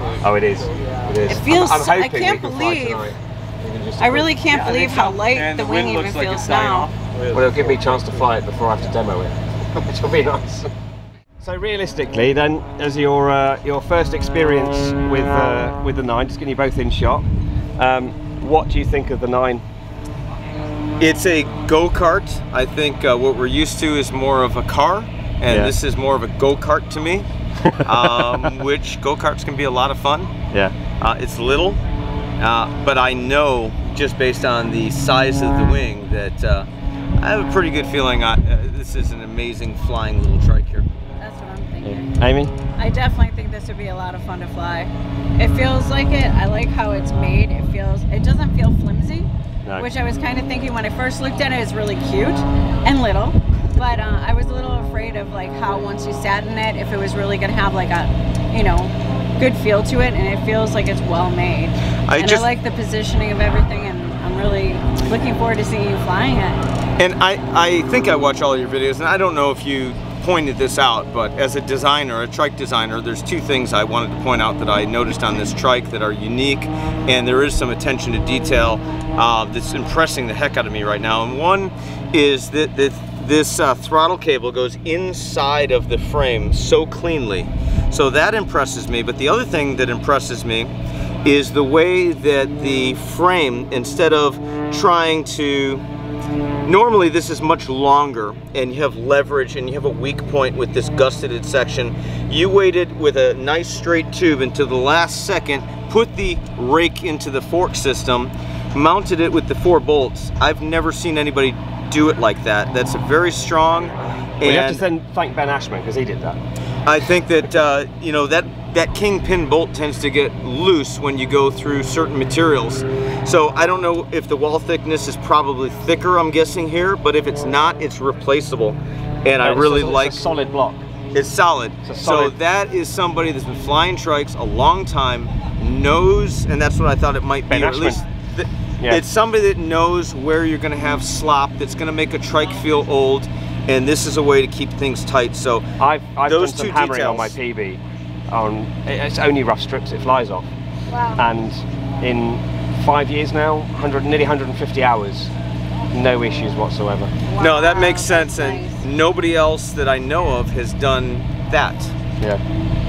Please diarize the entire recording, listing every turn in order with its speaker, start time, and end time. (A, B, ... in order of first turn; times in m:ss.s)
0:00.2-0:04.4 A
0:01.3-0:03.1 B
0:04.0-0:06.9 B
0:04.5-0:08.2 C
0:07.3-0:10.7 A
0:11.4-0:17.2 A
0:17.8-0:19.6 A
0:21.0-0:27.3 C
0:25.5-0:25.7 A
0:27.6-0:28.6 A
0:27.8-0:30.4 C
0:30.5-0:30.8 A
0:31.0-0:31.8 C
0:32.4-0:36.7 C
0:37.2-0:40.9 C
0:41.2-0:42.1 B
0:41.8-0:42.6 A
0:42.8-1:06.6 B
1:02.1-1:02.5 C
1:07.0-1:30.7 C
1:31.2-1:35.8 C
1:36.6-1:54.8 C
1:54.4-1:56.4 A
1:56.8-2:10.3 C
2:09.4-2:10.8 A
2:11.1-2:25.7 C
2:11.8-2:12.4 A
2:17.5-2:18.0 A
2:25.8-2:30.5 A
2:26.3-2:27.3 C
2:30.9-2:31.2 B
2:31.2-2:35.3 A
2:35.9-2:37.2 A
2:37.3-2:38.8 B
2:37.4-2:41.9 C